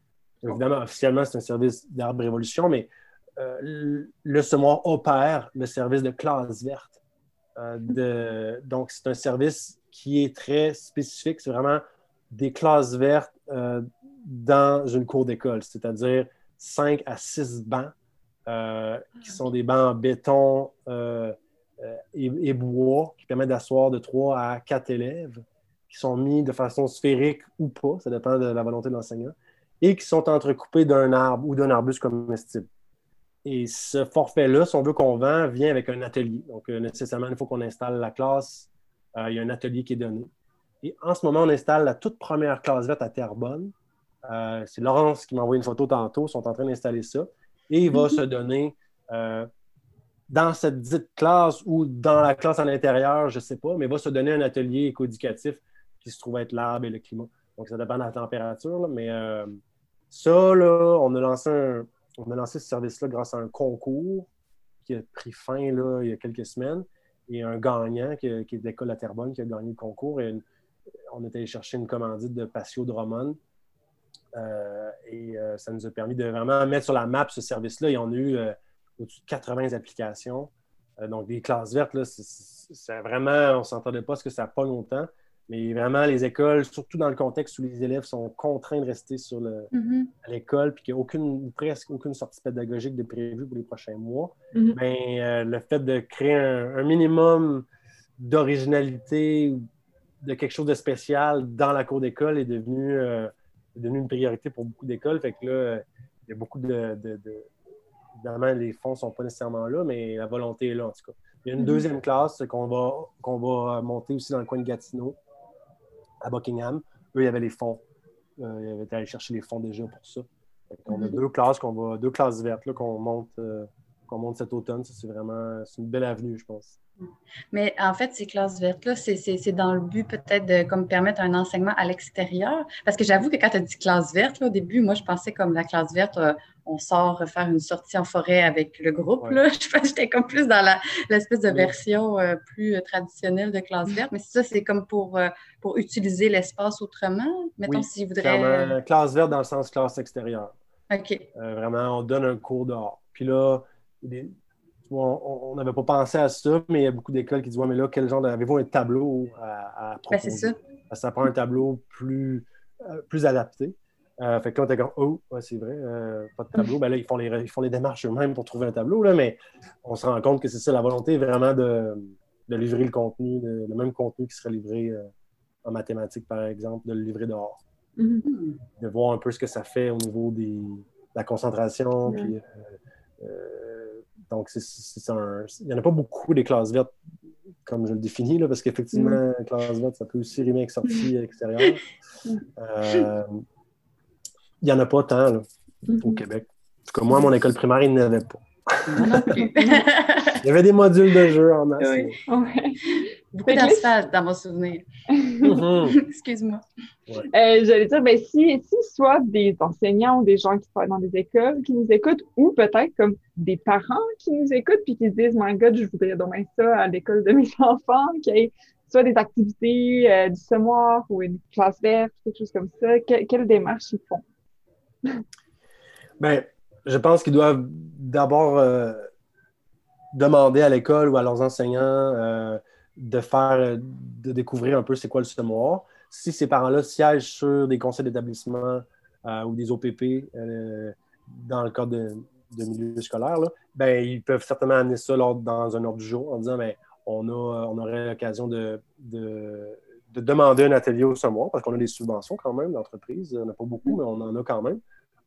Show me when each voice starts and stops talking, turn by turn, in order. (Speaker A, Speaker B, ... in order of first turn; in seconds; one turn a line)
Speaker A: 0.4-7.0
Speaker A: 7.6-17.9
Speaker A: 18.5-32.7
Speaker A: 33.5-40.3
Speaker A: 40.8-43.7
Speaker A: 44.3-49.5
Speaker A: 50.3-64.3
Speaker A: 64.8-70.4
Speaker A: 71.1-73.4
Speaker A: 74.3-89.7
Speaker B: 89.7-90.1
Speaker A: 90.2-97.7
Speaker A: 98.2-99.7
Speaker A: 100.2-107.5
Speaker A: 108.2-115.2
Speaker A: 116.2-117.8
Speaker A: 118.4-126.8
Speaker B: 120.9-121.2
Speaker B: 127.5-148.8
Speaker A: 147.7-150.5
Speaker B: 150.9-151.3
Speaker A: 151.3-154.3
Speaker A: 154.9-175.1
Speaker B: 160.1-160.6
Speaker A: 175.6-177.6
Speaker C: 178.0-178.2
Speaker B: 178.2-178.6
Speaker A: 178.8-186.9
Speaker C: 182.1-182.3
Speaker A: 187.7-191.8
Speaker C: 188.9-189.2
Speaker A: 192.6-193.4
Speaker A: 194.6-195.5
Speaker C: 195.9-196.2
Speaker A: 196.0-199.3
Speaker B: 198.9-200.4
Speaker A: 200.4-202.2
Speaker B: 201.8-202.1
Speaker C: 202.3-203.9
Speaker B: 202.9-204.9
Speaker C: 205.2-205.6
Speaker A: 205.4-206.0
Speaker B: 205.8-206.6
Speaker C: 207.3-224.2
Speaker A: 226.2-229.1
Speaker A: 230.1-254.8